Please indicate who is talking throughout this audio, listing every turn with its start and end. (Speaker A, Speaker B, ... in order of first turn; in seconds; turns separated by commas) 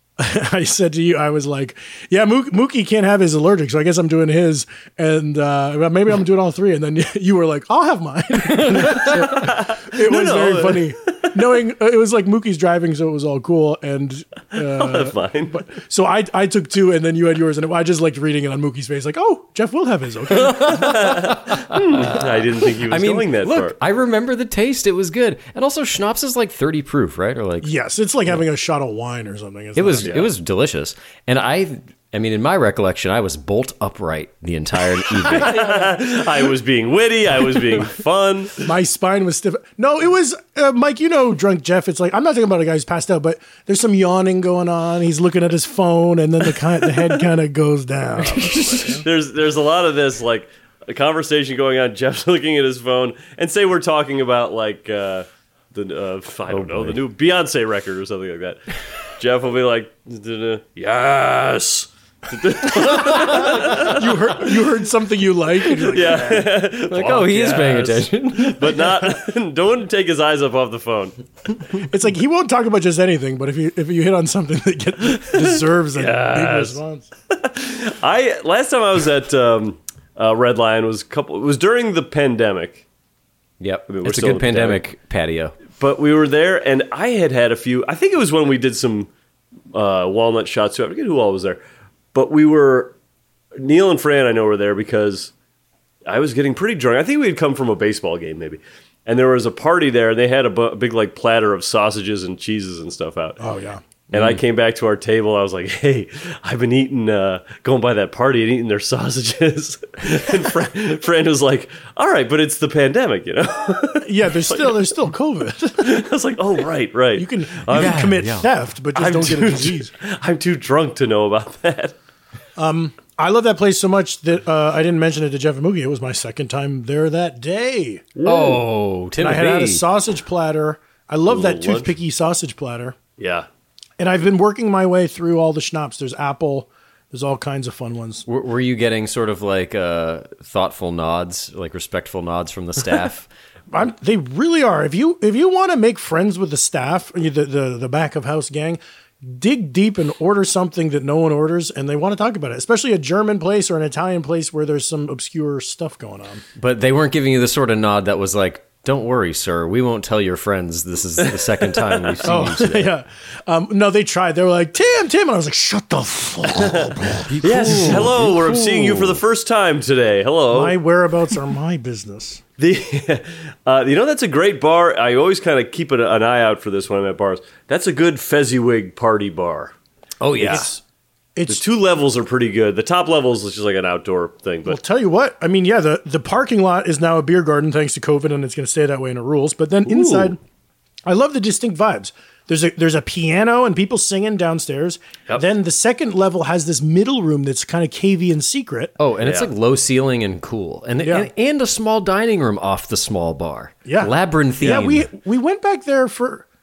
Speaker A: 0.2-21.3, Speaker B: 8.5-9.2, Speaker C: 9.2-11.3, Speaker C: 14.6-15.6, Speaker B: 20.5-27.7, Speaker C: 20.6-23.8, Speaker A: 27.6-30.1, Speaker B: 29.8-35.7, Speaker C: 30.0-30.3, Speaker C: 35.2-38.7, Speaker A: 35.3-35.8, Speaker A: 38.6-49.0, Speaker B: 48.2-49.0, Speaker C: 48.8-64.5, Speaker B: 56.5-57.0, Speaker A: 62.8-66.5, Speaker B: 63.0-63.9, Speaker C: 65.7-71.2, Speaker B: 66.9-69.0, Speaker A: 71.7-77.1, Speaker C: 75.2-76.8, Speaker C: 77.3-82.8, Speaker B: 83.6-85.5, Speaker C: 83.9-84.8, Speaker C: 85.8-89.1, Speaker C: 89.7-91.6, Speaker C: 92.1-92.9, Speaker C: 93.6-95.3, Speaker C: 96.1-103.4, Speaker A: 103.4-103.8, Speaker C: 104.1-114.8, Speaker B: 104.1-104.4, Speaker A: 114.0-115.9, Speaker C: 115.8-118.0, Speaker A: 117.2-119.9, Speaker B: 117.7-118.5, Speaker C: 119.0-122.0, Speaker A: 122.6-128.1, Speaker C: 128.2-128.6, Speaker B: 128.2-129.8, Speaker A: 129.2-133.0, Speaker C: 131.3-131.9, Speaker C: 133.2-133.5, Speaker A: 134.0-138.3, Speaker B: 138.3-143.3, Speaker A: 143.7-156.4, Speaker B: 156.6-162.9, Speaker A: 162.2-168.1, Speaker C: 166.6-170.8, Speaker B: 167.3-169.2, Speaker A: 170.5-172.4, Speaker C: 172.6-179.7, Speaker B: 180.2-180.7, Speaker A: 180.4-180.8, Speaker A: 181.4-181.6, Speaker C: 181.5-184.8, Speaker A: 184.7-190.4, Speaker C: 189.9-190.3, Speaker A: 191.1-198.9, Speaker B: 199.0-205.1, Speaker C: 199.2-199.5, Speaker A: 201.0-201.3, Speaker A: 203.9-206.5